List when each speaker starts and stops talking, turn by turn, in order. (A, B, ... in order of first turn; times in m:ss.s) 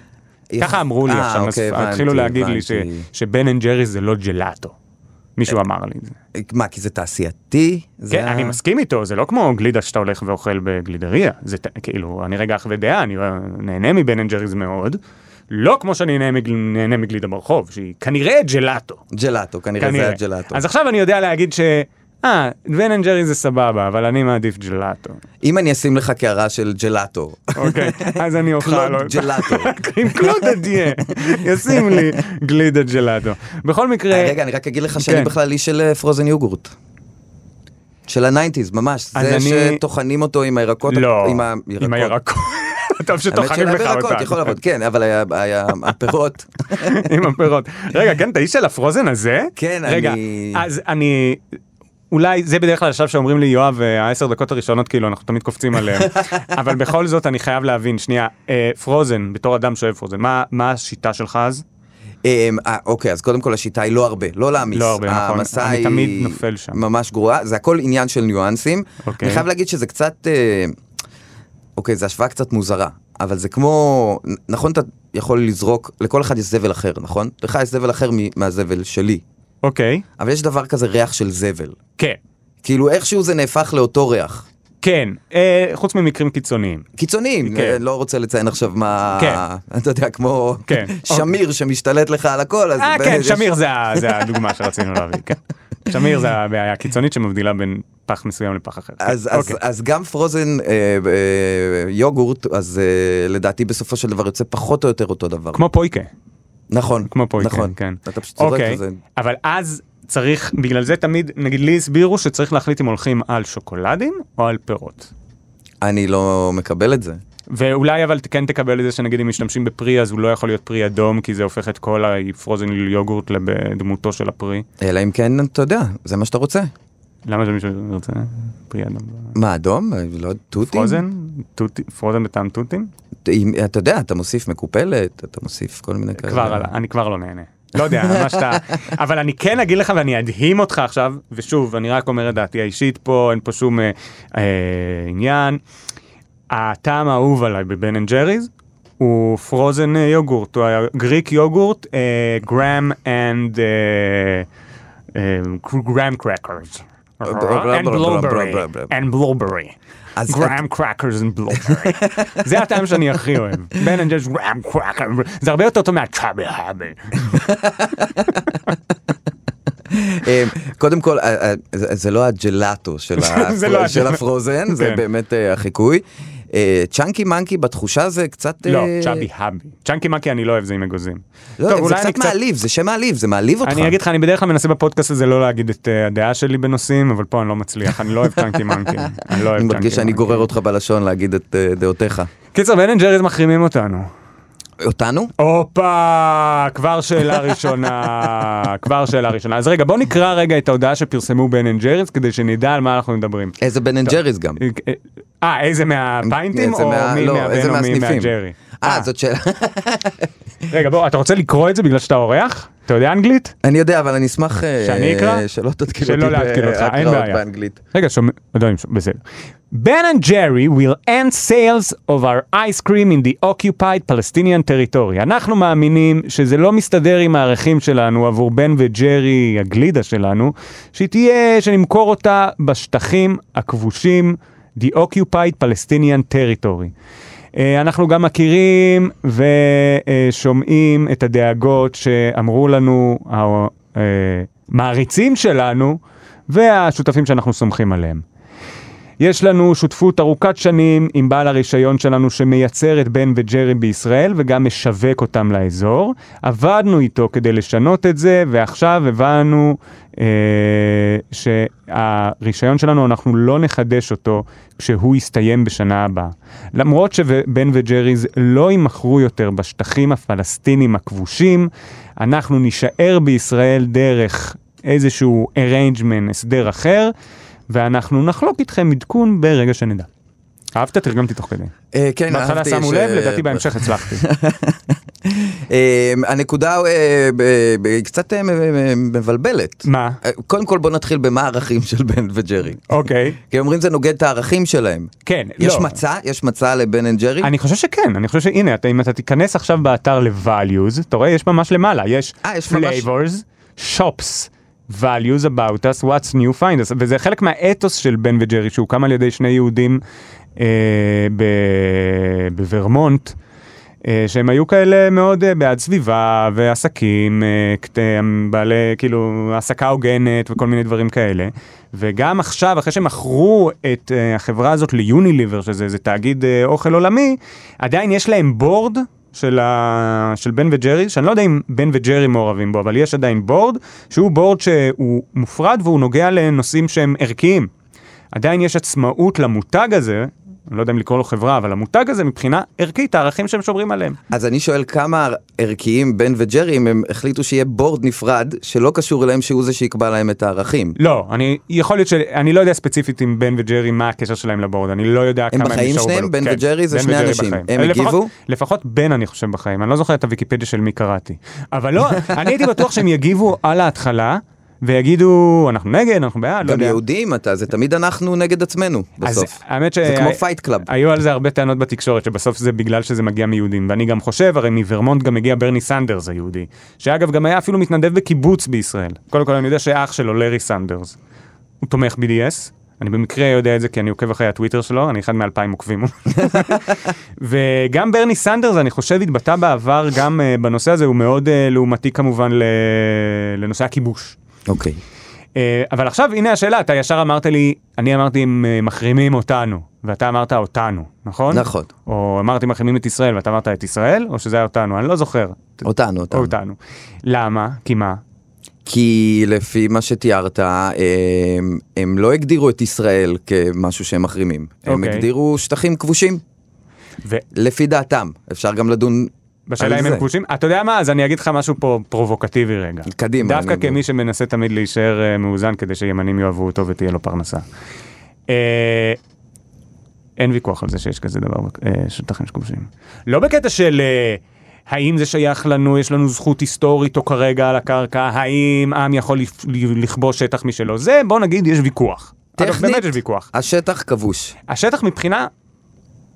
0:00.5-0:03.0 A
0:00.6-0:04.7 B
0:05.4-0:06.2 B
0:06.3-0:08.6 A
0:08.1-0:15.0 B
0:15.5-0:19.0 B
0:19.1-0:20.6 A
0:19.8-0:25.2 B
0:25.4-0:32.2 A
0:27.6-0:34.4 B
0:34.1-0:36.7 A
0:35.0-0:35.3 B
0:38.1-0:42.2 A
0:39.1-0:39.8 B
0:40.9-0:44.5 B
0:43.3-0:47.0 A
0:46.7-0:51.4 B
0:49.6-0:50.6 A
0:52.1-1:01.6 B
1:02.2-1:10.8 A
1:04.7-1:06.8 B
1:09.0-1:09.4 B
1:11.8-1:19.2 A
1:19.6-1:20.0 B
1:20.2-1:21.8 A
1:22.6-1:24.4 A
1:24.8-1:26.8 B
1:27.0-1:34.1 A
1:27.4-1:27.8 B
1:29.2-1:29.4 B
1:30.7-1:31.3 B
1:32.8-1:39.6 B
1:39.0-1:45.6 A
1:45.5-1:46.1 B
1:46.7-1:49.0 A
1:47.1-1:55.1 B
1:55.8-1:57.2 A
1:57.5-2:04.6 B
2:04.8-2:06.7 A
2:07.2-2:09.3 B
2:09.3-2:11.0 A
2:10.7-2:12.9 B
2:13.2-2:16.7 A
2:16.2-2:25.6 B
2:17.8-2:18.6 A
2:26.5-2:34.5 B
2:35.1-2:39.7 B
2:37.2-2:38.9 A
2:40.2-2:40.6 A
2:40.3-2:47.4 B
2:41.6-2:42.4 A
2:47.2-2:48.4 A
2:49.9-2:59.3 A
2:53.2-2:55.0 B
2:58.6-3:02.3 B
3:01.6-3:04.0 A
3:03.6-3:10.5 B
3:09.3-3:12.3 A
3:12.5-3:14.1 B
3:14.8-3:15.3 A
3:15.4-3:29.1 B
3:23.6-3:24.6 A
3:26.2-3:30.3 A
3:30.7-3:33.5 B
3:33.6-3:37.8 A
3:34.8-3:35.4 B
3:36.0-3:37.4 B
3:37.9-3:39.2 B
3:39.7-3:56.9 B
3:57.6-4:06.0 B
4:06.5-4:08.2 B
4:09.2-4:37.1 B
4:37.7-4:40.1 B
4:40.7-4:41.7 B
4:41.9-4:52.9 A
4:42.3-4:44.2 B
4:49.8-4:50.2 B
4:52.9-4:53.4 B
4:53.4-4:57.5 A
4:55.2-4:56.0 B
4:57.4-5:10.0 B
5:02.4-5:03.0 A
5:10.6-5:13.4 B
5:14.0-5:37.7 B
5:38.3-5:44.2 B
5:44.3-5:51.0 A
5:51.0-6:07.0 B
5:55.5-5:58.3 A
6:06.6-6:10.9 A
6:09.2-6:21.2 B
6:21.8-6:34.4 B
6:26.4-6:26.7 A
6:34.7-6:35.0 A
6:35.5-6:48.2 B
6:41.5-6:41.9 A
6:45.8-6:46.5 A
6:48.8-6:56.4 A
6:54.8-6:55.3 B
6:57.5-7:00.2 A
6:59.7-7:07.6 B
7:03.1-7:04.0 A
7:08.5-7:09.2 B
7:10.4-7:23.5 B
7:22.6-7:24.5 A
7:24.7-7:25.5 B